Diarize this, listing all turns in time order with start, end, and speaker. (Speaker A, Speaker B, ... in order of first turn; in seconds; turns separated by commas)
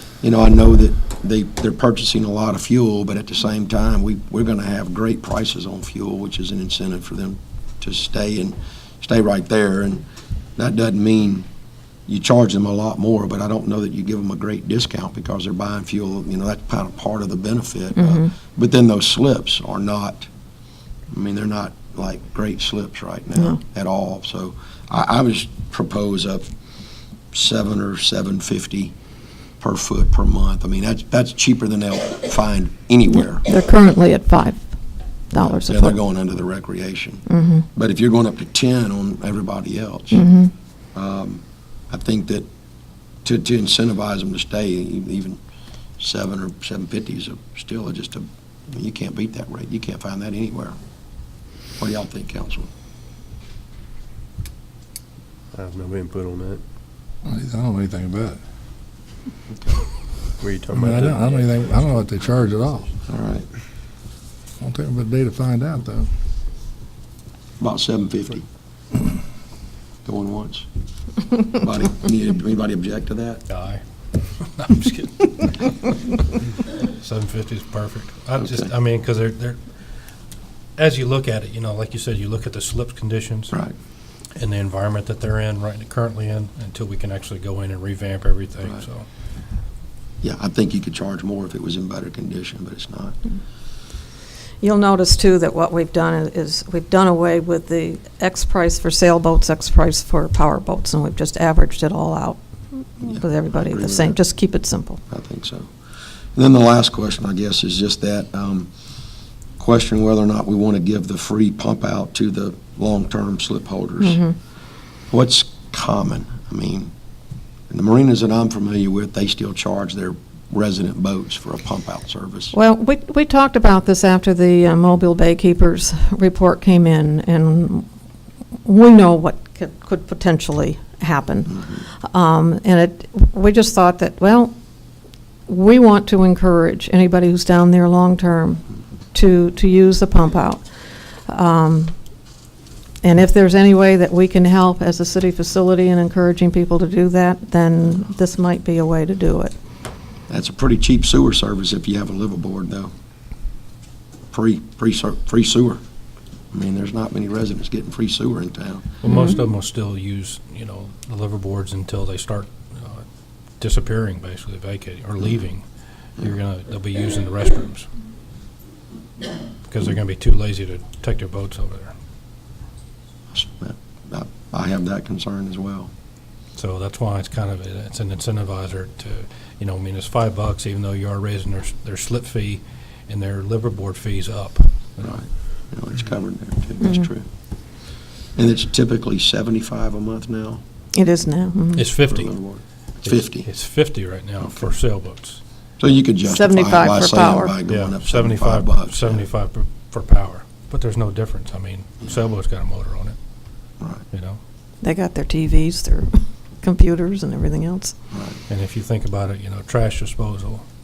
Speaker A: 0.2-10.0, Speaker A: 10.6-11.5, Speaker A: 12.1-20.3, Speaker B: 18.0-18.3, Speaker A: 21.1-26.4, Speaker A: 27.3-28.9, Speaker A: 29.6-33.5, Speaker B: 33.4-34.6, Speaker B: 35.3-36.0, Speaker A: 35.4-40.2, Speaker B: 37.3-37.6, Speaker B: 40.1-40.5, Speaker A: 40.9-42.5, Speaker A: 43.2-45.4, Speaker A: 46.0-50.8, Speaker A: 51.8-52.7, Speaker C: 55.5-56.6, Speaker D: 57.2-58.4, Speaker A: 59.5-59.8, Speaker C: 60.4-62.7, Speaker D: 60.7-62.9, Speaker A: 63.1-63.5, Speaker D: 64.6-66.1, Speaker A: 67.6-68.4, Speaker A: 70.0-70.7, Speaker A: 71.4-73.4, Speaker E: 73.5-79.6, Speaker E: 80.8-83.6, Speaker E: 84.3-89.0, Speaker A: 90.2-93.2, Speaker B: 94.6-105.0, Speaker A: 103.0-104.2, Speaker A: 105.1-105.7, Speaker A: 106.3-108.7, Speaker A: 109.6-114.2, Speaker B: 114.0-114.3, Speaker A: 115.1-116.9, Speaker A: 117.7-122.5, Speaker B: 122.5-127.8, Speaker B: 128.6-134.5, Speaker A: 131.5-131.8, Speaker B: 135.5-140.6, Speaker B: 141.3-141.9, Speaker B: 143.0-149.5, Speaker A: 150.3-152.9, Speaker A: 154.3-155.8, Speaker A: 156.5-158.9, Speaker E: 159.0-163.0, Speaker B: 159.0-159.3, Speaker E: 163.6-165.7, Speaker E: 166.2-167.9, Speaker E: 169.6-171.9, Speaker A: 173.3-175.9, Speaker E: 176.6-185.2, Speaker A: 185.0-187.2, Speaker A: 188.3-190.6, Speaker B: 190.9-191.9, Speaker E: 191.8-192.4, Speaker A: 192.1-193.5, Speaker E: 193.0-195.4, Speaker A: 194.4-194.7, Speaker A: 195.8-199.2, Speaker B: 196.2-197.5, Speaker E: 197.7-203.2, Speaker E: 204.1-204.4, Speaker B: 204.8-207.9, Speaker A: 208.1-208.4, Speaker E: 208.5-210.6